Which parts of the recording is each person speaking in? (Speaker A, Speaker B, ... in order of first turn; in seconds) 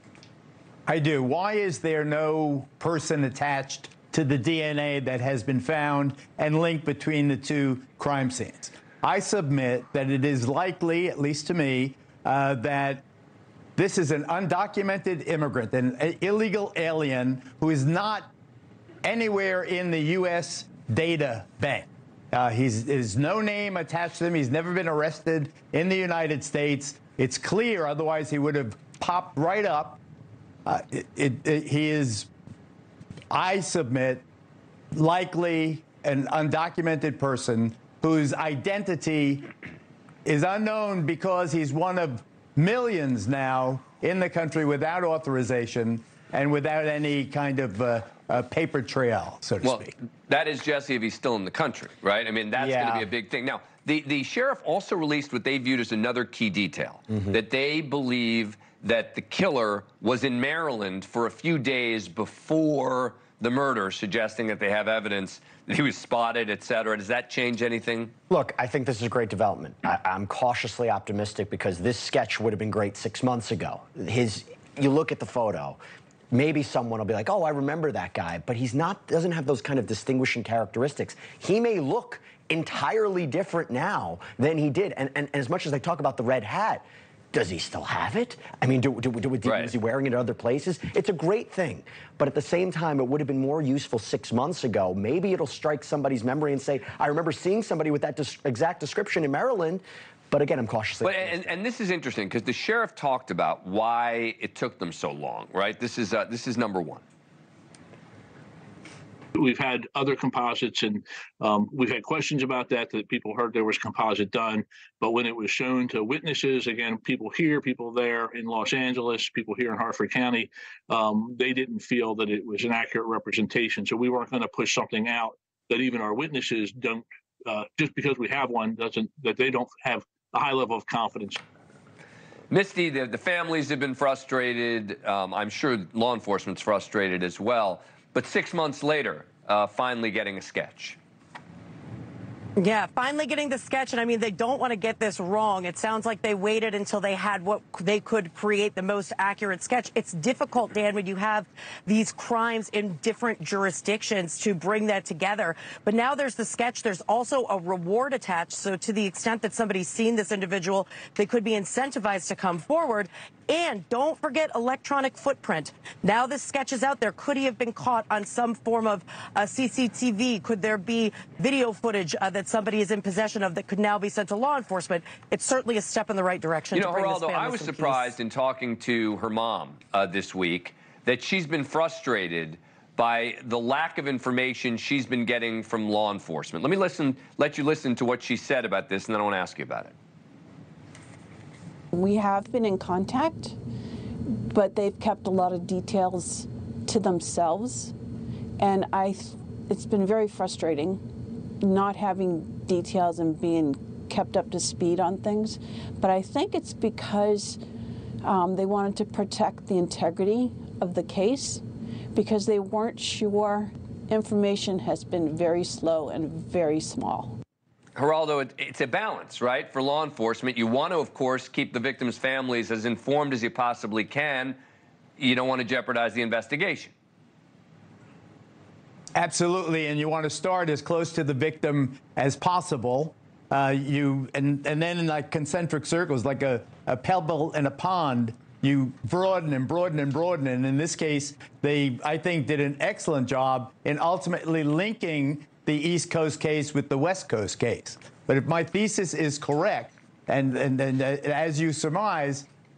Speaker A: 0.9-13.0, 13.8-18.3, 19.0-30.0, 30.7-32.3, 33.3-34.2, 34.9-39.5, 40.3-49.9, 52.6-53.0, 229.2-252.5
Speaker B: 49.6-68.1, 89.5-89.7, 101.0-107.0, 132.5-141.0, 176.7-189.9, 218.0-224.6, 225.2-226.9
Speaker C: 68.3-75.8, 76.3-101.5
Speaker D: 109.3-131.4
Speaker E: 142.6-178.1
Speaker F: 191.9-193.6, 194.3-197.9, 198.6-201.0, 201.6-207.6, 208.2-217.4